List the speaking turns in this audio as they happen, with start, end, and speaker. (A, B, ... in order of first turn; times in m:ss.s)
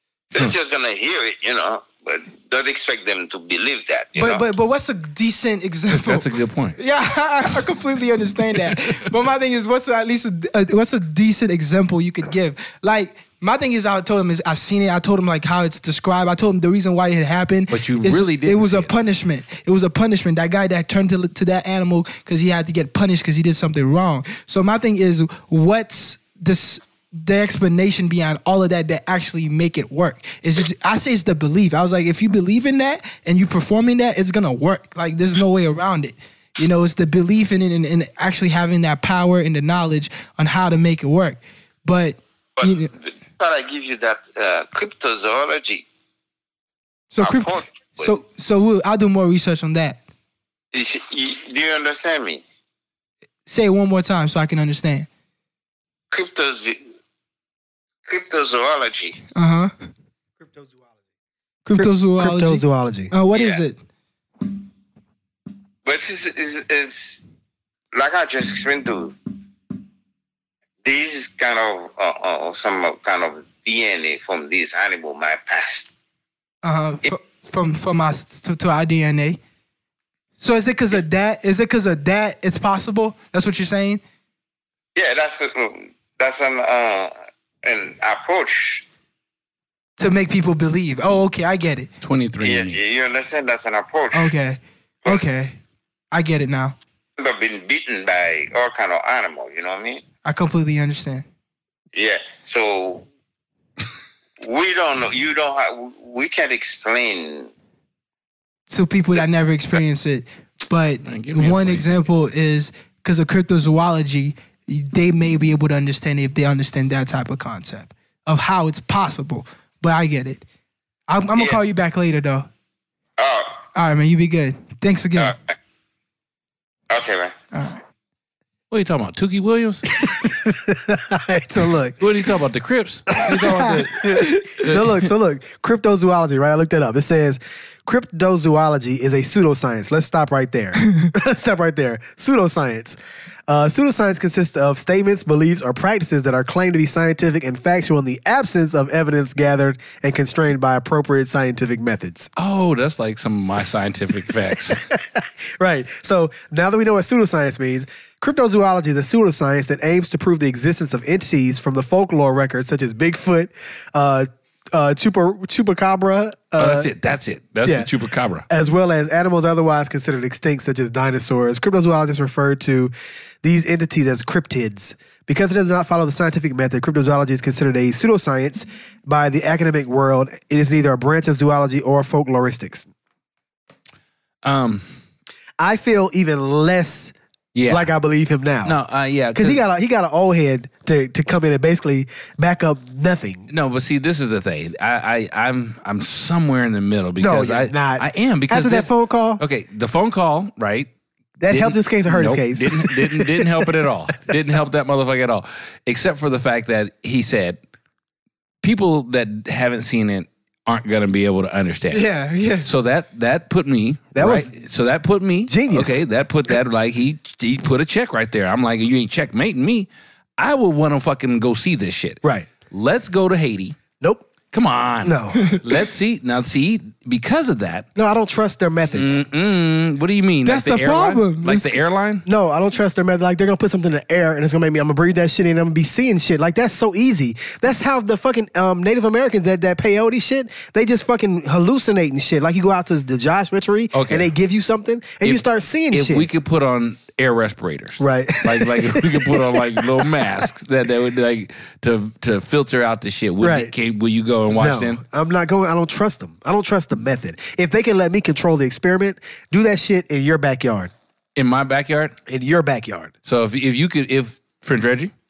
0:00.3-0:04.5 A
0:04.2-0:42.9 B
0:05.9-0:06.8 C
0:17.7-0:18.9 C
0:42.6-0:45.9 A
0:47.1-0:50.0 B
0:47.2-0:48.1 A
0:50.7-0:52.4 A
0:53.5-0:55.1 B
0:56.1-0:56.8 A
0:58.1-0:59.2 A
0:59.4-0:59.7 B
1:00.4-1:00.8 D
1:01.7-1:03.8 B
1:01.7-1:03.1 D
1:03.3-1:03.6 A
1:05.8-1:07.2 A
1:07.9-1:09.2 A
1:10.8-1:15.9 A
1:16.6-1:19.4 B
1:20.4-1:24.0 B
1:25.0-1:27.1 A
1:27.6-1:28.8 A
1:30.0-1:31.9 B
1:32.0-1:32.8 C
1:32.4-1:34.3 A
1:34.1-1:35.6 B
1:36.1-1:36.8 B
1:37.2-1:40.0 A
1:40.2-1:41.2 B
1:41.9-1:43.1 A
1:44.4-1:47.5 A
1:48.7-2:00.4 B
1:51.0-1:52.1 C
2:01.1-2:02.5 B
2:01.3-2:01.6 A
2:03.2-2:03.6 A
2:03.8-2:05.4 B
2:06.9-2:07.4 A
2:07.5-2:07.8 B
2:08.7-2:09.8 C
2:10.0-2:12.0 D
2:12.0-2:14.8 C
2:13.2-2:32.3 D
2:32.4-2:34.8 C
2:34.7-2:46.9 D
2:46.6-2:48.4 C
2:48.5-2:52.9 D
2:53.4-3:02.9 D
3:04.4-3:05.0 C
3:05.6-3:07.1 D
3:07.6-3:07.9 C
3:07.7-3:08.8 D
3:08.6-3:09.6 C
3:09.4-3:13.5 D
3:13.5-3:20.9 C
3:17.2-3:19.4 D
3:21.4-3:23.6 D
3:21.5-3:27.6 C
3:28.6-3:32.1 C
3:31.9-3:32.7 B
3:32.6-3:43.8 C
3:34.2-3:34.5 D
3:35.5-3:36.0 D
3:44.0-3:44.3 D
3:44.5-3:47.9 C
3:45.0-3:45.6 D
3:48.0-3:49.2 D
3:48.9-3:52.3 C
3:50.4-3:51.7 B
3:52.3-4:06.3 D
4:03.9-4:04.3 C
4:05.2-4:15.0 C
4:08.0-4:10.2 D
4:13.4-4:13.7 D
4:14.5-4:20.9 D
4:21.4-4:22.2 C
4:22.3-4:23.1 D
4:23.2-4:25.1 C